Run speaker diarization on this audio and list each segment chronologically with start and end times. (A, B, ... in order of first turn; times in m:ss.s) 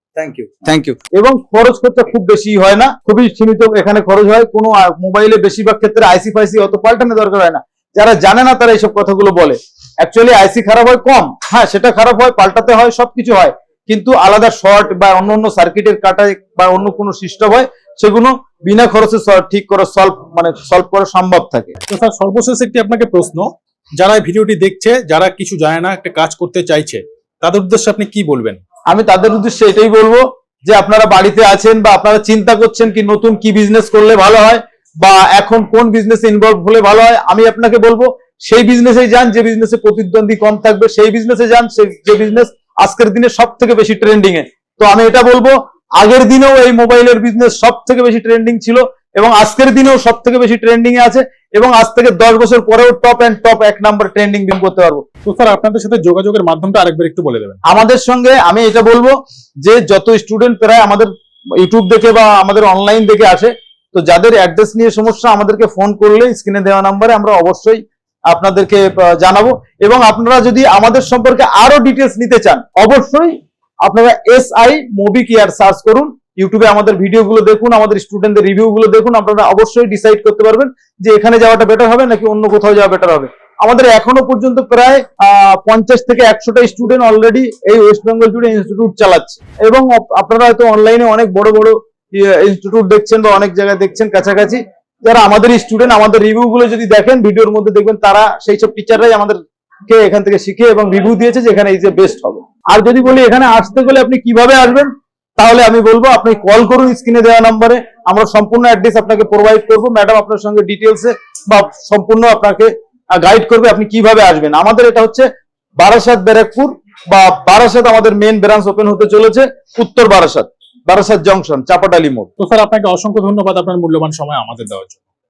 0:00.2-0:21.8 A
0:21.9-0:28.6 B
0:28.9-0:55.0 A
0:55.2-0:57.6 B
0:57.6-1:55.3 A
1:55.8-2:02.3 A
2:02.4-2:05.0 B